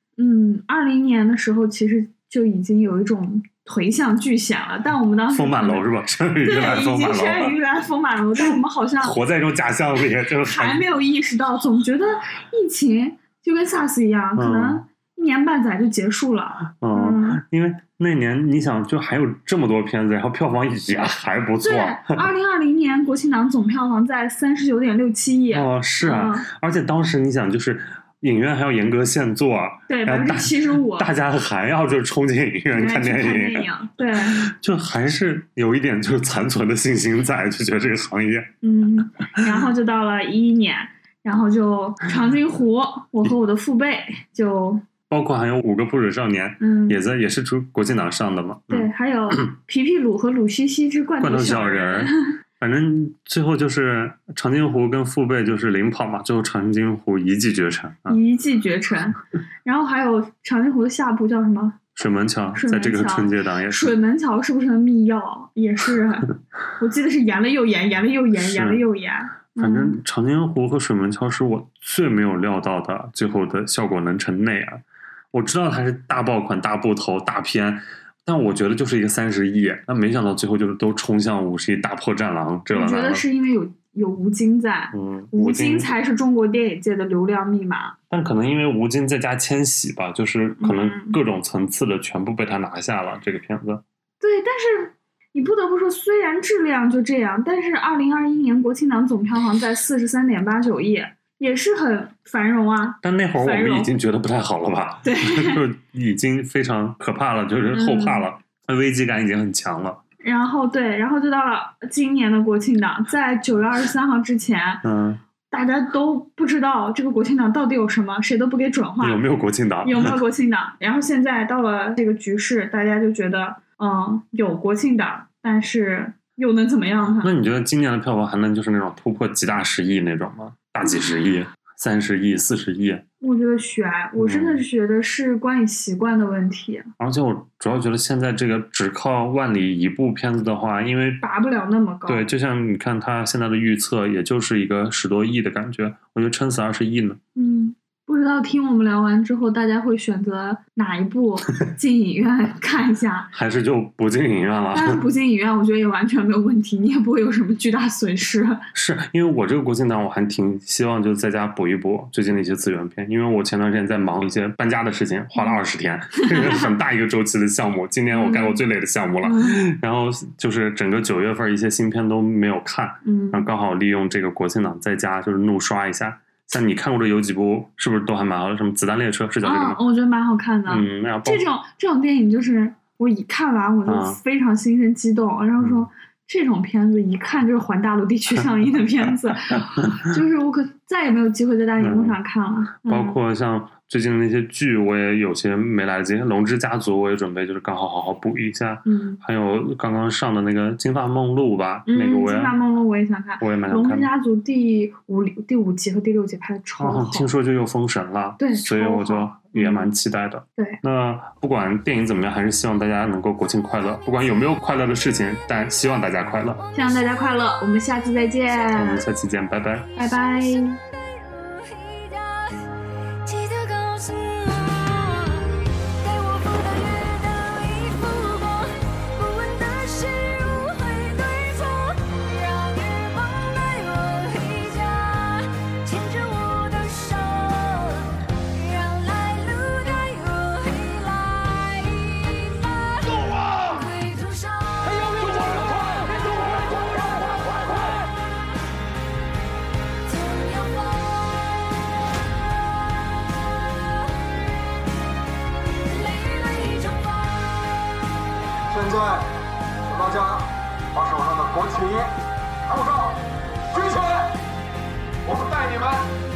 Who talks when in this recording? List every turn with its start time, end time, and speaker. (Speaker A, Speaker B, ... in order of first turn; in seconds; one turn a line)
Speaker A: 0.2-5.8
Speaker B: 5.3-7.6
Speaker A: 6.4-9.2
Speaker B: 9.0-10.8
Speaker A: 10.4-17.4
Speaker B: 14.4-14.8
Speaker B: 16.8-22.3
Speaker A: 21.6-26.5
Speaker B: 25.5-33.6
Speaker A: 29.9-31.1
Speaker A: 32.7-34.5
Speaker B: 34.3-38.5
Speaker A: 38.6-44.8
Speaker B: 45.1-49.4
Speaker A: 46.6-47.0
Speaker A: 48.7-52.3
Speaker B: 51.2-58.2
Speaker A: 58.1-61.9
Speaker B: 62.0-63.9
Speaker A: 62.5-70.0
Speaker B: 68.4-68.8
Speaker B: 69.6-74.8
Speaker B: 75.3-83.2
Speaker A: 82.7-88.0
Speaker B: 84.9-85.9
Speaker B: 88.1-93.8
Speaker A: 90.6-91.2
Speaker A: 94.2-103.9
Speaker B: 103.0-110.0
Speaker A: 105.0-105.6
Speaker A: 107.7-108.3
Speaker A: 110.2-114.8
Speaker B: 114.8-115.2
Speaker A: 115.5-119.2
Speaker B: 119.0-120.2
Speaker A: 119.8-127.3
Speaker B: 127.2-133.0
Speaker A: 133.2-136.9
Speaker B: 134.2-134.6
Speaker B: 137.0-141.2
Speaker A: 141.2-142.2
Speaker B: 142.1-147.2
Speaker A: 147.4-153.3
Speaker B: 153.3-155.0
Speaker A: 154.7-158.6
Speaker B: 158.7-179.8
Speaker A: 166.2-166.7
Speaker A: 168.1-168.6
Speaker A: 169.2-169.6
Speaker A: 173.0-173.5
Speaker A: 179.4-193.2
Speaker B: 180.7-181.4
Speaker B: 183.9-184.2
Speaker B: 185.6-185.9
Speaker B: 191.8-192.2
Speaker B: 192.8-202.6
Speaker A: 198.8-199.2
Speaker A: 201.9-207.3
Speaker B: 203.4-204.1
Speaker B: 206.8-216.6
Speaker A: 208.4-209.9
Speaker A: 216.7-219.1
Speaker B: 218.8-219.9
Speaker A: 220.0-220.8
Speaker C: 220.0-225.5
Speaker C: 226.0-248.1
Speaker C: 250.1-251.9
Speaker C: 253.8-254.8
Speaker C: 255.6-257.9
Speaker D: 258.7-259.3
Speaker D: 259.9-262.1
Speaker D: 262.7-263.2
Speaker D: 263.7-264.3
Speaker D: 265.2-266.1